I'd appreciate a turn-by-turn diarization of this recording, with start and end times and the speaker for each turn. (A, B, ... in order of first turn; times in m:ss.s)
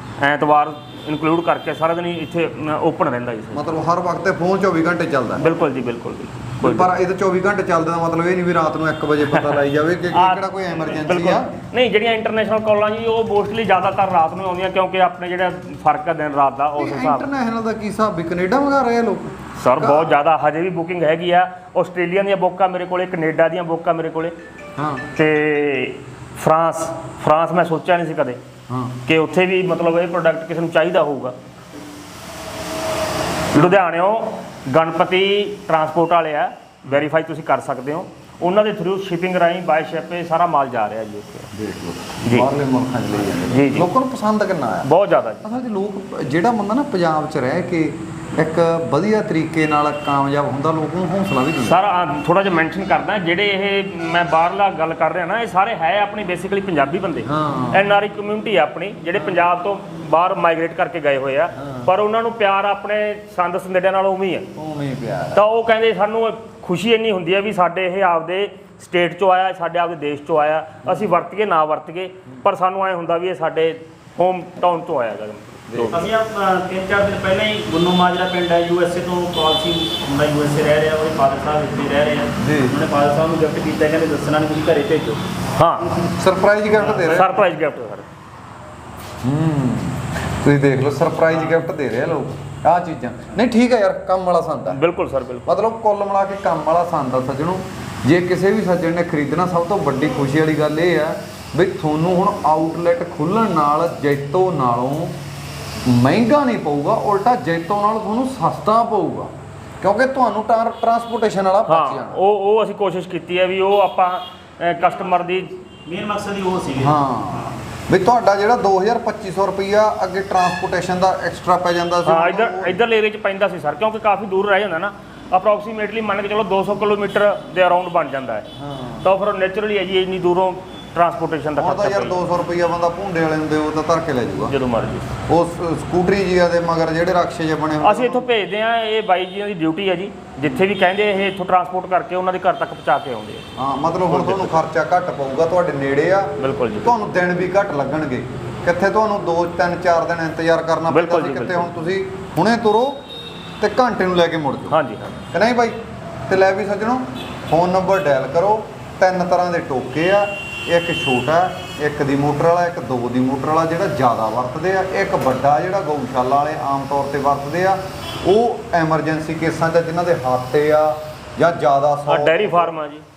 0:00.2-0:03.6 A
0:03.5-0:05.5 B
0:05.4-0:06.9 A
0:06.6-0:11.5 B
0:09.3-0:09.6 A
0:10.1-0:17.3 A
0:16.8-0:20.2 B
0:19.6-0:24.3 A
0:24.8-0:25.0 B
0:25.1-0:28.4 A
0:28.7-0:29.0 B
0:29.0-0:31.4 A
0:33.5-0:41.5 A
0:33.5-0:33.8 B
0:41.5-0:44.9 B
0:43.5-0:43.9 A
0:44.8-0:45.5 A
0:45.4-0:51.8 B
0:51.6-1:04.5 A
0:57.2-0:57.9 B
1:01.6-1:01.9 B
1:04.6-1:05.4 B
1:05.3-1:16.1 A
1:10.9-1:11.1 B
1:15.7-1:16.0 B
1:15.9-1:25.2 C
1:22.4-1:22.8 B
1:25.6-1:26.0 A
1:26.1-1:27.4 B
1:27.0-1:28.1 A
1:29.2-1:34.8 B
1:34.7-1:35.5 A
1:35.4-1:45.2 B
1:45.8-1:52.2 B
1:51.6-1:55.5 A
1:54.8-1:57.6 C
1:56.8-2:02.8 B
2:02.0-2:08.5 A
2:08.6-2:09.1 B
2:09.0-2:12.2 A
2:11.6-2:14.5 B
2:14.5-2:15.1 A
2:15.3-2:18.3 B
2:17.8-2:23.4 A
2:23.6-2:33.0 B
2:24.1-2:24.6 A
2:26.4-2:27.0 A
2:30.9-2:31.7 A
2:33.6-2:34.8 B
2:34.7-2:35.2 A
2:35.3-2:52.7 B
2:52.1-2:53.0 A